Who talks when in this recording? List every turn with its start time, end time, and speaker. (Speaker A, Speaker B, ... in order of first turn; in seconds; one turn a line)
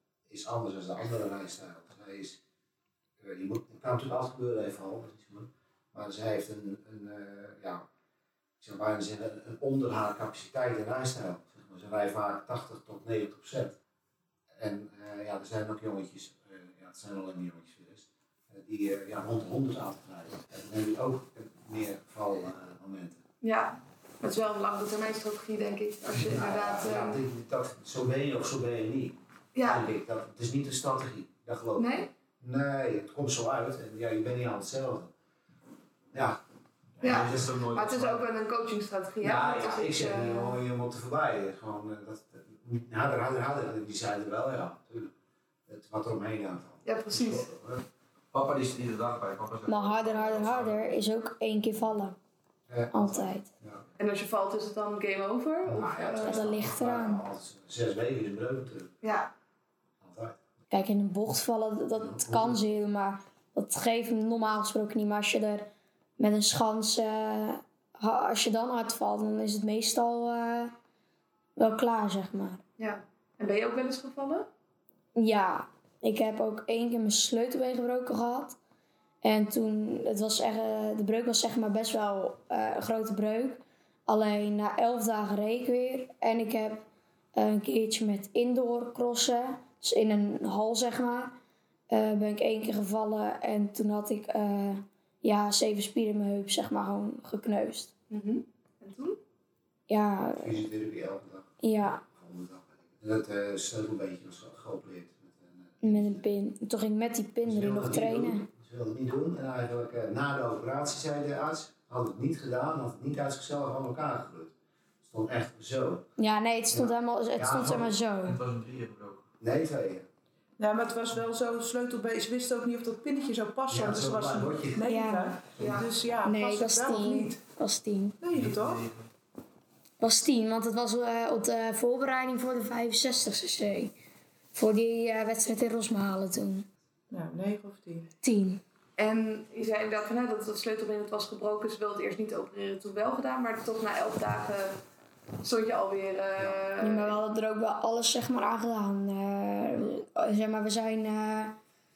Speaker A: 0.3-2.4
Speaker A: 3.2-7.8
Speaker A: 8.6-13.8
Speaker A: 14.6-23.2
Speaker B: 23.4-27.2
Speaker A: 26.1-35.1
Speaker B: 29.6-29.9
Speaker B: 31.8-32.1
Speaker A: 36.1-36.4
Speaker C: 37.0-38.2
Speaker B: 37.0-40.6
Speaker A: 39.2-45.1
Speaker A: 45.7-47.8
Speaker B: 46.9-47.5
Speaker C: 48.3-51.0
Speaker D: 49.7-52.2
Speaker A: 52.7-53.8
Speaker D: 52.9-53.5
Speaker B: 54.0-56.5
Speaker A: 55.7-58.9
Speaker D: 56.2-57.2
Speaker B: 59.0-59.3
Speaker A: 60.0-60.4
Speaker D: 60.7-70.7
Speaker A: 62.0-62.6
Speaker D: 71.6-72.6
Speaker B: 72.8-74.5
Speaker D: 75.2-78.6
Speaker D: 79.2-91.4
Speaker D: 91.9-97.9
Speaker B: 98.1-99.2
Speaker D: 99.9-100.6
Speaker A: 100.4-101.5
Speaker D: 101.6-102.0
Speaker A: 102.1-106.2
Speaker D: 105.8-108.5
Speaker A: 107.4-116.1
Speaker D: 116.2-118.4
Speaker A: 116.7-118.0
Speaker C: 118.2-119.2
Speaker A: 119.4-120.1
Speaker E: 120.6-127.4
Speaker A: 123.7-124.9
Speaker D: 124.8-125.4
Speaker B: 125.6-125.9
Speaker D: 126.2-128.2
Speaker E: 128.2-128.8
Speaker C: 128.3-129.1
Speaker D: 130.0-133.9
Speaker D: 134.6-136.7
Speaker E: 137.1-138.1
Speaker D: 138.2-138.6
Speaker B: 139.0-144.8
Speaker B: 145.4-147.2
Speaker D: 146.8-151.6